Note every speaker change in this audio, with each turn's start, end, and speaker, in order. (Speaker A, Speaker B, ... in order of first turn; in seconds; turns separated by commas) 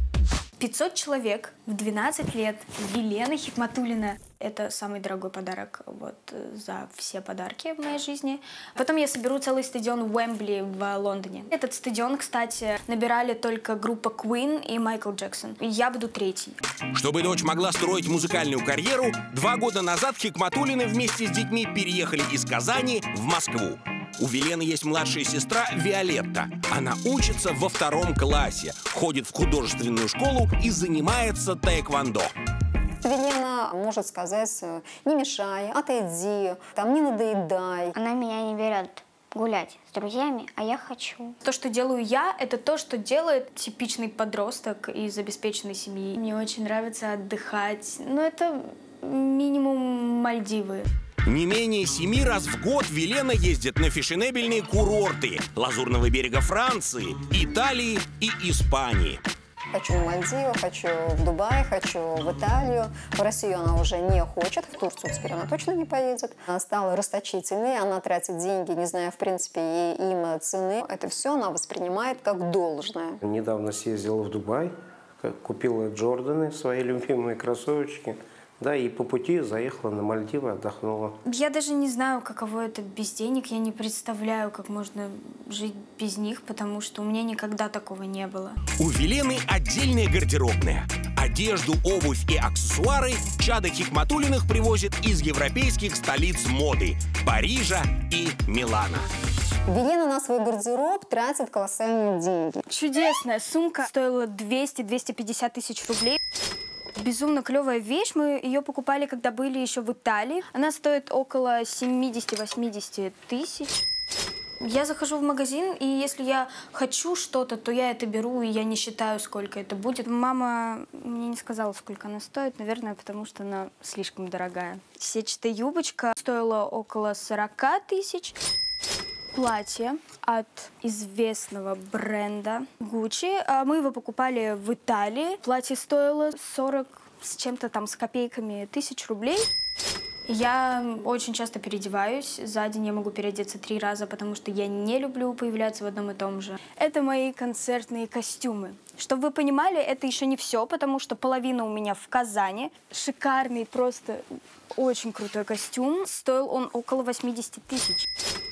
Speaker A: 0.6-16.6, Speaker B: 16.9-32.3, Speaker C: 33.0-38.0, Speaker D: 38.0-41.4, Speaker A: 41.4-50.9, Speaker B: 51.3-59.2, Speaker C: 59.7-73.2, Speaker E: 73.2-81.2, Speaker A: 81.2-88.6, Speaker B: 88.8-99.1, Speaker C: 99.7-102.7, Speaker A: 102.7-106.2, Speaker A: 107.0-113.8, Speaker A: 114.6-128.4, Speaker A: 129.3-139.5, Speaker A: 140.3-158.1